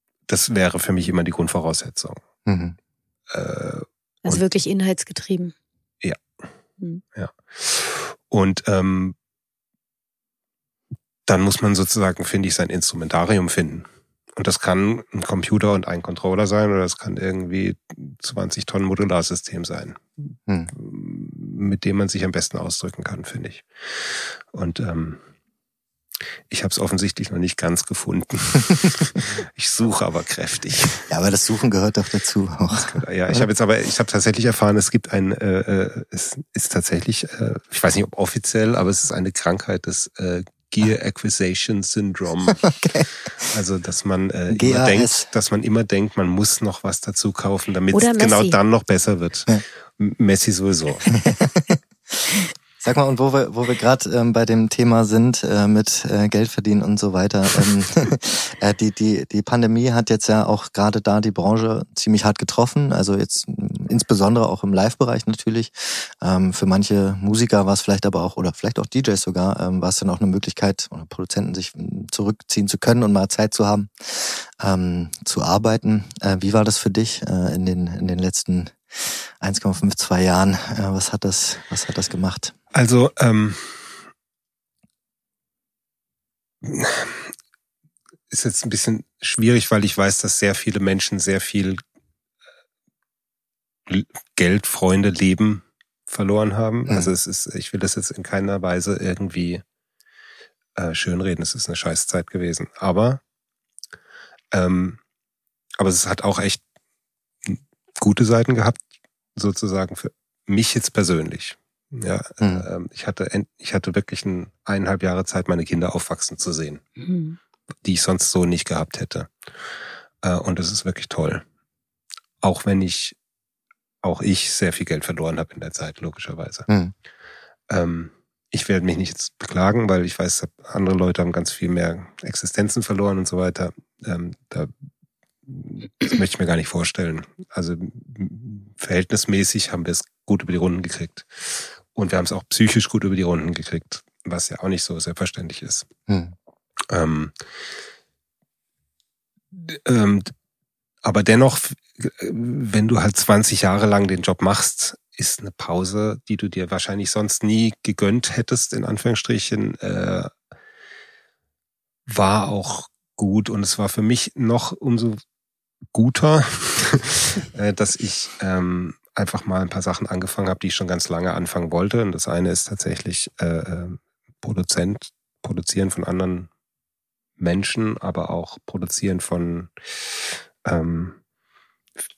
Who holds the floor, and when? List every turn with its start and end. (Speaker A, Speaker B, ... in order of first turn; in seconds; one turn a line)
Speaker A: 0.3-2.2
Speaker B: 2.5-2.7
Speaker A: 3.3-4.4
Speaker C: 4.2-5.5
Speaker A: 7.2-9.1
Speaker A: 11.3-25.2
Speaker B: 20.5-20.7
Speaker A: 26.5-31.1
Speaker B: 31.1-33.5
Speaker A: 32.7-42.7
Speaker B: 42.5-43.1
Speaker A: 43.4-51.2
Speaker B: 44.5-45.2
Speaker C: 47.9-48.6
Speaker B: 51.1-51.8
Speaker B: 52.8-82.5
Speaker A: 82.7-83.9
Speaker A: 86.6-87.3
Speaker A: 88.3-91.8
Speaker A: 93.9-99.6
Speaker B: 96.9-97.1
Speaker A: 100.7-103.2
Speaker A: 104.5-105.0
Speaker A: 105.8-106.6
Speaker A: 107.4-108.8
Speaker A: 109.3-116.8
Speaker B: 112.4-112.7
Speaker C: 117.0-117.4
Speaker A: 117.8-119.3
Speaker A: 120.2-121.4
Speaker A: 122.4-123.2
Speaker A: 124.0-126.7
Speaker B: 126.7-126.9
Speaker A: 127.7-134.7
Speaker A: 135.4-145.9
Speaker B: 146.1-146.3
Speaker A: 146.9-147.3
Speaker A: 149.6-150.3
Speaker A: 151.0-160.3
Speaker A: 162.1-165.2
Speaker A: 165.9-176.5
Speaker A: 177.4-179.7
Speaker A: 180.6-181.2